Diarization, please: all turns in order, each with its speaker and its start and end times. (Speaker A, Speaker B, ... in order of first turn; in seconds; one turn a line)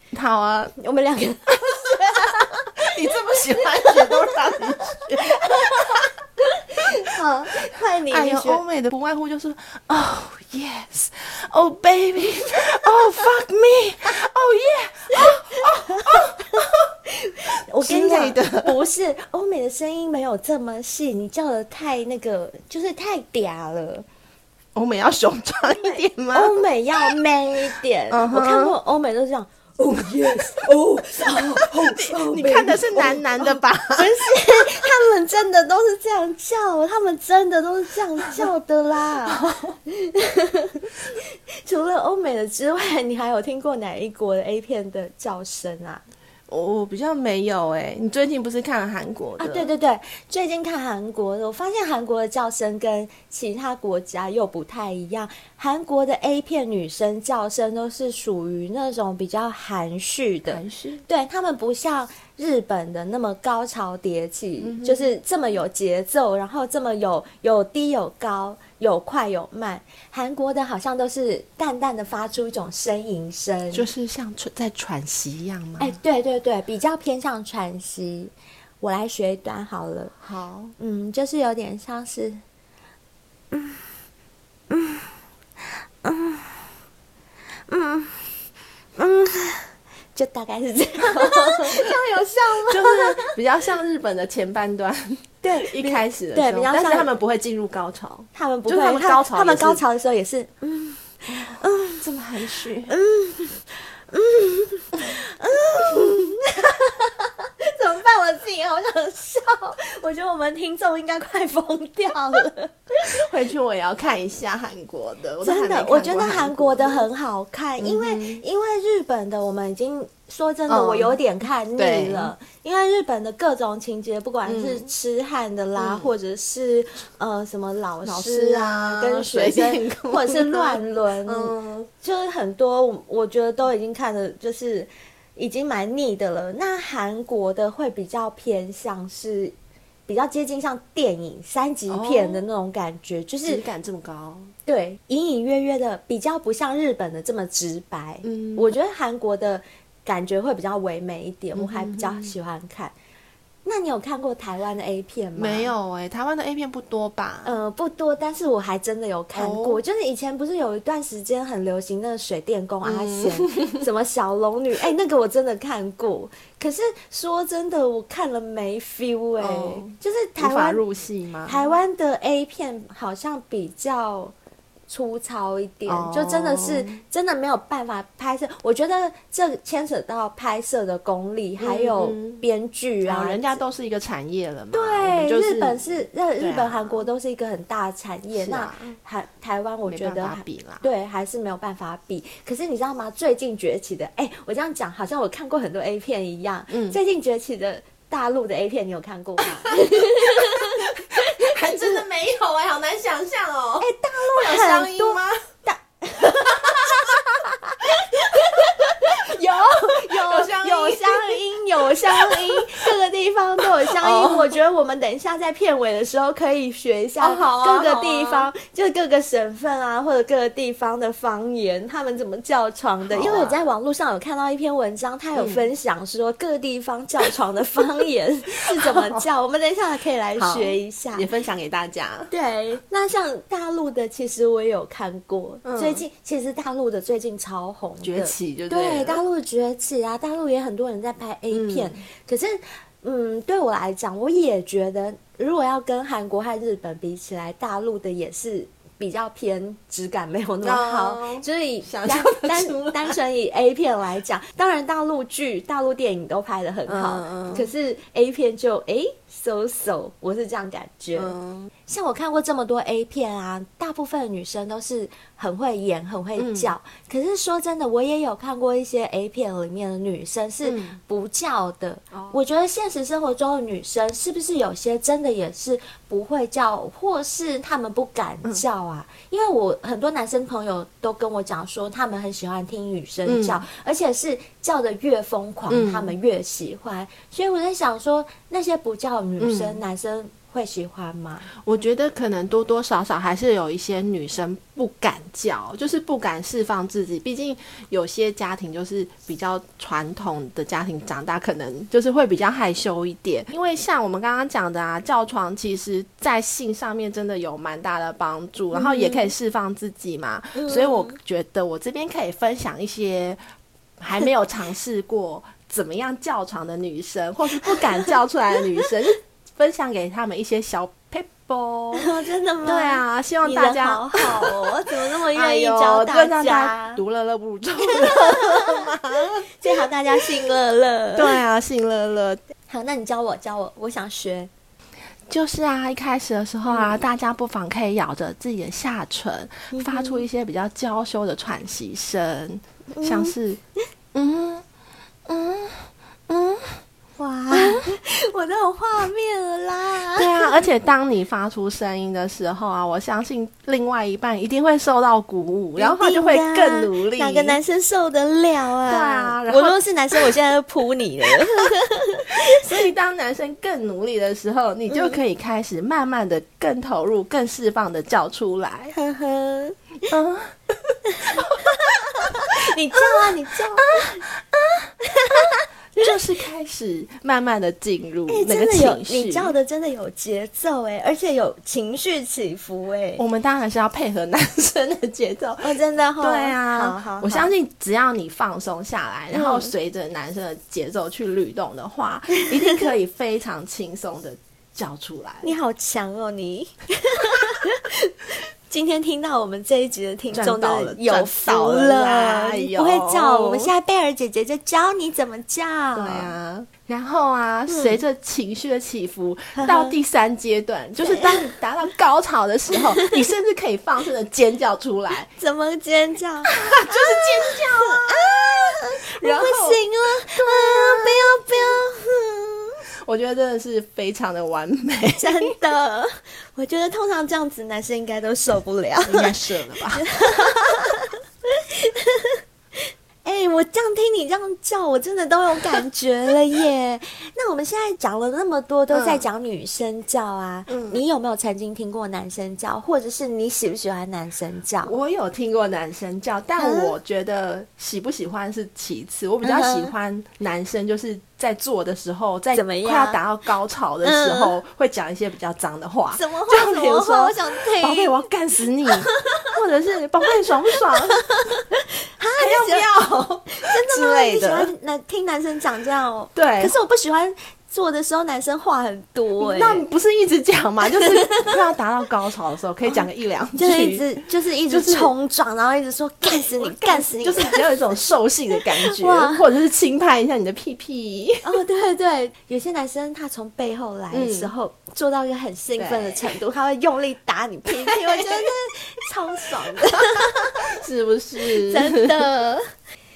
Speaker A: 0.1-0.7
Speaker B: 0.8-8.6
Speaker A: 2.9-6.1
Speaker A: 8.1-16.9
Speaker B: 15.2-24.1
Speaker A: 17.8-18.8
Speaker A: 24.8-27.1
Speaker B: 25.9-46.0
Speaker A: 28.1-28.8
Speaker A: 31.3-34.4
Speaker A: 39.3-39.8
Speaker A: 46.5-49.7
Speaker B: 49.4-73.9
Speaker A: 60.5-61.0
Speaker A: 64.6-65.1
Speaker A: 73.7-76.0
Speaker B: 75.8-80.1
Speaker A: 80.2-80.8
Speaker B: 80.8-82.4
Speaker B: 83.5-83.8
Speaker B: 84.7-85.1
Speaker B: 86.0-86.6
Speaker B: 87.7-88.4
Speaker B: 89.0-93.3
Speaker A: 91.1-92.0
Speaker A: 92.7-99.8
Speaker B: 95.4-97.1
Speaker B: 98.3-102.0
Speaker A: 101.3-102.9
Speaker B: 102.9-113.2
Speaker A: 113.0-117.1
Speaker B: 115.4-139.5
Speaker A: 117.8-118.4
Speaker A: 120.7-121.2
Speaker A: 121.8-122.3
Speaker A: 124.5-124.9
Speaker A: 125.8-126.1
Speaker A: 128.0-131.9
Speaker B: 140.1-143.6
Speaker A: 141.9-142.4
Speaker A: 143.5-144.5
Speaker B: 144.7-152.9
Speaker A: 148.2-148.8
Speaker A: 151.6-152.3
Speaker B: 153.7-155.7
Speaker A: 155.4-157.5
Speaker B: 157.4-170.8
Speaker A: 159.3-159.8
Speaker A: 162.8-163.8
Speaker A: 169.4-171.7
Speaker B: 171.5-174.3
Speaker B: 174.9-183.6
Speaker A: 175.9-177.0
Speaker A: 181.6-182.4
Speaker A: 183.0-185.8
Speaker B: 184.7-202.0
Speaker A: 186.4-187.1
Speaker A: 188.3-189.0
Speaker A: 189.9-190.8
Speaker A: 196.7-197.0
Speaker A: 199.5-205.4
Speaker B: 203.8-207.1
Speaker A: 206.5-207.4
Speaker B: 207.9-231.3
Speaker A: 208.2-212.9
Speaker A: 213.6-214.5
Speaker A: 217.2-218.5
Speaker A: 223.1-223.6
Speaker A: 225.4-225.7
Speaker A: 228.7-229.2
Speaker A: 230.4-232.3
Speaker B: 232.3-261.4
Speaker A: 235.7-236.0
Speaker A: 238.0-239.2
Speaker A: 241.5-242.0
Speaker A: 250.6-253.2
Speaker A: 256.9-257.7
Speaker A: 261.1-261.7
Speaker B: 261.9-291.5
Speaker A: 266.4-266.7
Speaker A: 270.6-271.0
Speaker A: 272.1-272.4
Speaker A: 283.3-283.6
Speaker A: 285.7-286.1
Speaker A: 289.4-289.8
Speaker A: 291.6-313.4
Speaker B: 308.7-309.3
Speaker B: 310.6-311.2
Speaker A: 314.0-322.1
Speaker B: 321.9-327.0
Speaker A: 322.6-330.3
Speaker B: 327.9-328.9
Speaker B: 329.5-331.4
Speaker A: 331.1-332.4
Speaker B: 332.7-334.5
Speaker A: 335.3-343.6
Speaker B: 339.7-340.2
Speaker B: 342.9-343.3
Speaker A: 344.1-344.6
Speaker A: 345.3-346.8
Speaker B: 347.2-350.6
Speaker A: 347.5-347.9
Speaker A: 350.2-357.6
Speaker B: 355.8-362.7
Speaker A: 358.9-360.3
Speaker A: 361.4-361.7
Speaker A: 362.4-368.9
Speaker B: 368.9-369.8
Speaker A: 370.1-370.6
Speaker B: 371.1-374.3
Speaker A: 371.2-372.4
Speaker A: 373.0-374.1
Speaker B: 375.0-376.1
Speaker A: 376.0-379.5
Speaker B: 378.3-383.2
Speaker A: 383.2-395.5
Speaker B: 385.6-387.5
Speaker B: 389.3-389.7
Speaker B: 395.4-406.3
Speaker A: 400.3-403.7
Speaker A: 405.9-415.3
Speaker B: 407.7-408.0
Speaker B: 409.6-410.0
Speaker B: 411.0-411.5
Speaker B: 415.3-422.8
Speaker A: 416.6-419.8
Speaker A: 420.3-421.4
Speaker A: 423.1-425.5
Speaker B: 425.2-429.3
Speaker A: 429.1-430.0
Speaker B: 429.9-444.9
Speaker A: 438.9-439.2
Speaker A: 440.7-441.0
Speaker A: 444.8-461.4
Speaker B: 446.6-446.9
Speaker B: 449.4-449.9
Speaker B: 452.5-453.2
Speaker B: 454.0-454.6
Speaker B: 456.1-458.3
Speaker B: 459.0-459.5
Speaker B: 460.9-462.9
Speaker A: 462.4-464.7
Speaker B: 463.5-469.8
Speaker A: 466.4-466.7
Speaker A: 469.4-474.1
Speaker B: 471.0-471.5
Speaker B: 473.6-477.6
Speaker A: 474.7-475.1
Speaker A: 476.3-481.4
Speaker B: 478.8-479.5
Speaker B: 481.4-490.8
Speaker A: 484.1-484.5
Speaker A: 485.8-486.3
Speaker A: 487.8-488.3
Speaker A: 490.2-492.2
Speaker B: 491.4-492.7